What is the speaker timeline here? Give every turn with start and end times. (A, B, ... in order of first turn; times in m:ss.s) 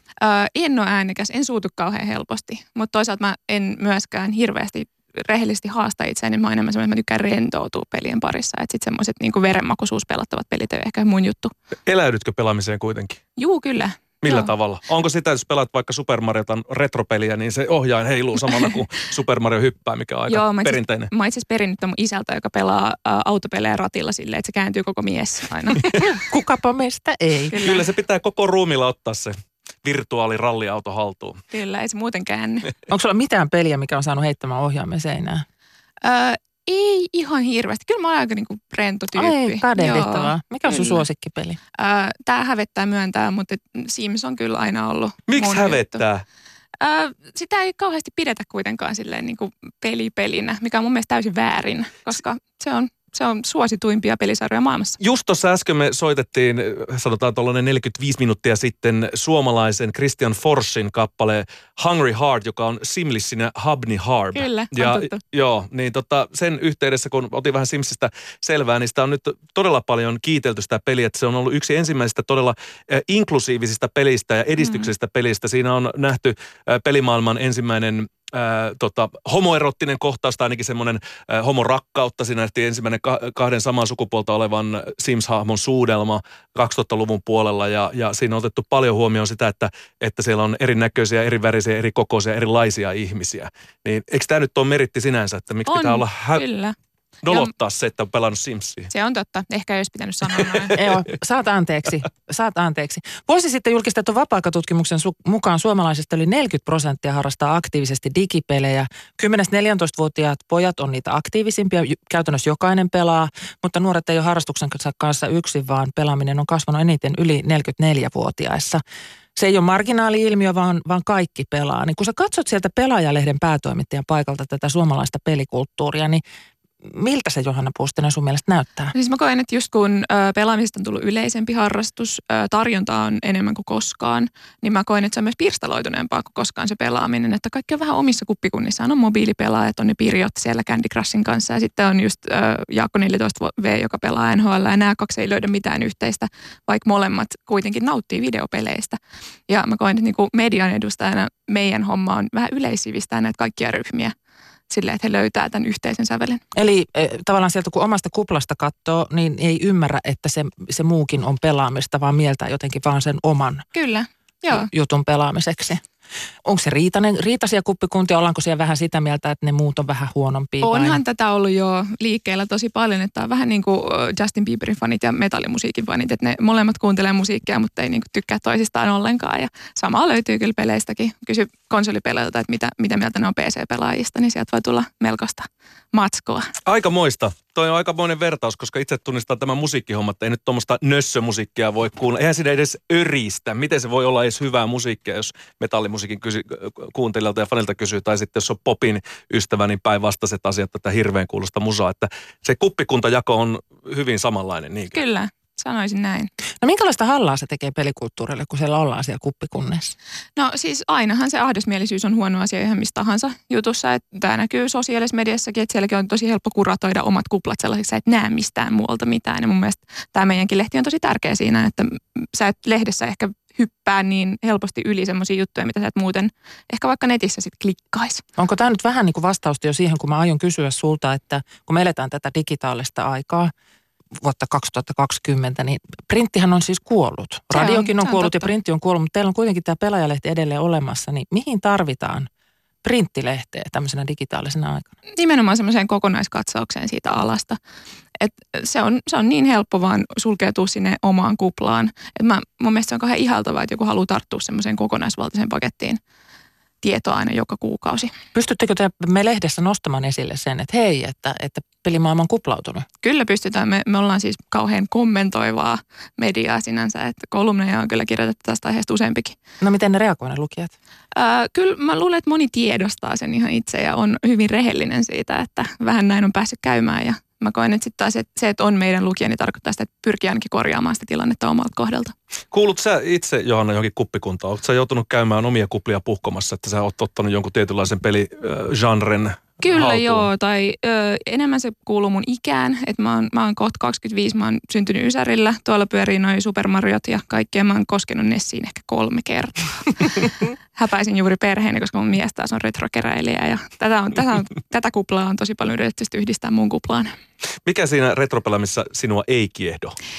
0:00.2-0:11.5 A
0:11.9-0:13.2 B
0:13.4-0:14.5 A
0:14.2-0:21.1 B
0:20.3-0:25.9 A
0:25.8-0:27.6 C
0:27.5-0:27.9 A
0:27.6-0:31.4 B
0:31.5-0:32.7 A
0:32.9-0:35.4 C
0:36.0-0:41.0 A
0:39.1-0:41.6 C
0:41.7-0:46.0 A
0:45.3-0:46.2 B
0:46.8-0:55.0 A
0:55.0-1:36.4 B
1:04.3-1:05.2 A
1:14.6-1:14.9 A
1:35.7-1:36.7 A
1:37.2-1:38.9 B
1:38.9-1:40.8 A
1:40.7-1:58.8 C
1:59.4-2:06.2 C
2:06.8-2:08.9 C
2:08.9-2:34.1 A
2:34.7-2:36.4 A
2:36.5-2:43.6 C
2:43.7-2:44.7 A
2:44.5-2:45.8 C
2:46.4-2:51.0 C
2:50.6-3:06.5 A
3:06.6-3:25.0 B
3:24.9-3:26.3 A
3:26.6-3:29.9 C
3:30.4-3:48.2 A
3:48.4-3:53.5 C
3:54.2-4:02.3 C
3:57.5-3:58.5 A
4:02.8-4:04.9 C
4:05.1-4:07.6 A
4:08.2-4:16.0 A
4:16.8-4:18.1 A
4:18.3-4:22.8 C
4:23.0-4:29.4 A
4:29.6-4:30.7 C
4:31.1-4:42.1 A
4:42.5-4:50.3 B
4:49.6-5:07.1 A
5:07.6-5:10.0 B